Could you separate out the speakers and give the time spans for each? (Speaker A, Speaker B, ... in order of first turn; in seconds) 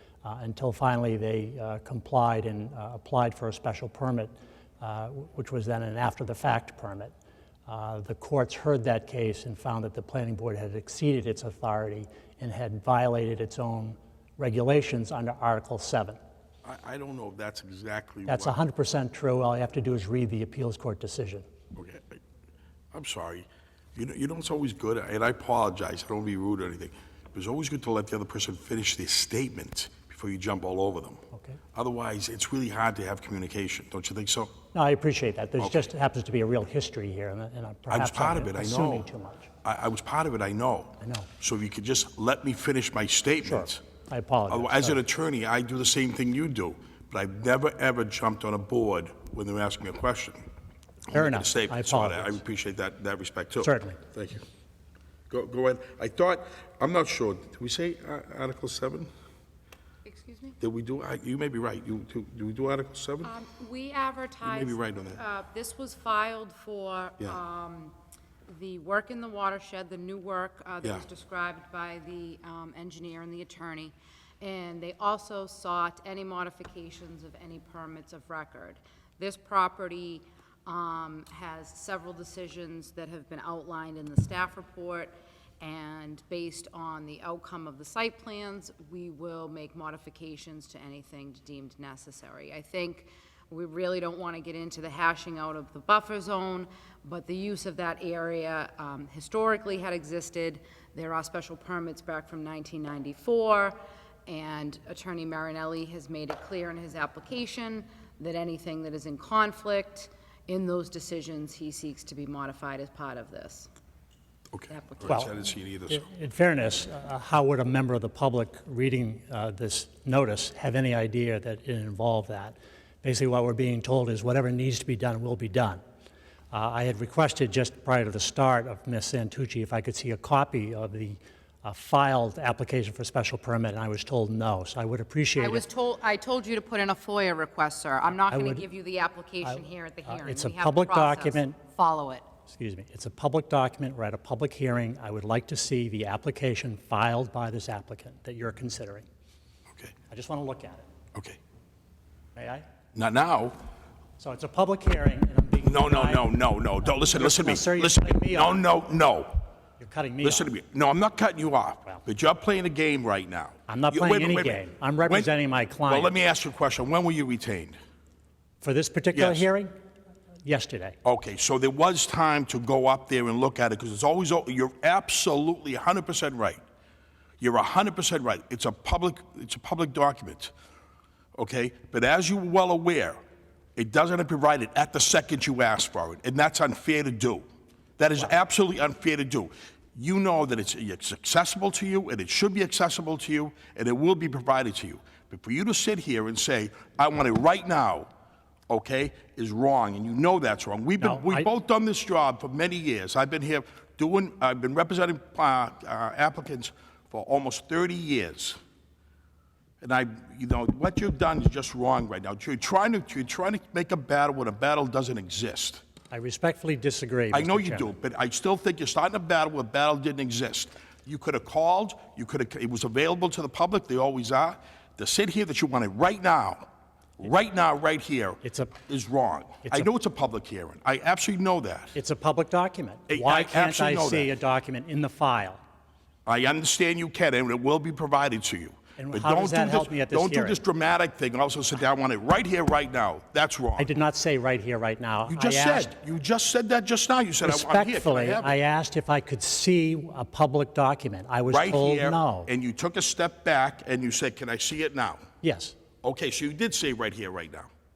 Speaker A: 0.2-7.1, 7.7-16.2, 18.3-21.4, 31.3-31.6, 34.7-39.5, 41.0-41.3, 43.4-45.0, 51.1-52.4, 53.6-54.0, 115.1-115.3, 115.9-125.8, 126.5-135.6, 138.3-138.6, 139.4-141.6, 142.5-149.1, 150.1-150.9, 152.3-152.6, 154.2-156.3, 156.8-158.6, 159.8-160.5, 163.7-166.1, 168.6-169.7, 170.4-170.9, 201.0-201.5, 216.1-217.9, 228.4-228.7, 231.9-235.6, 239.0-240.6, 243.8-245.9, 247.4-252.5, 255.4-255.8
Speaker B: 16.6-18.6, 21.7-22.2, 22.9-31.2, 31.7-34.5, 35.6-35.8, 37.9-39.1, 39.6-43.8, 44.5-50.4, 51.1-54.4, 55.3-59.1, 60.6-63.3, 64.4-65.2, 114.5-116.1, 152.9-153.6, 155.6-159.4, 160.2-165.3, 165.8-167.8, 169.1-169.4, 171.0-176.6, 177.4-180.5, 181.3-183.2, 183.8-187.4, 188.0-198.1, 198.7-208.6, 209.8-215.8, 217.3-226.7, 227.2-232.0, 233.1-234.3, 236.2-243.9, 245.3-248.6, 251.5-255.2, 256.0-257.7
Speaker C: 60.0-60.6, 63.2-67.9, 68.5-113.7, 114.7-115.4, 135.4-142.2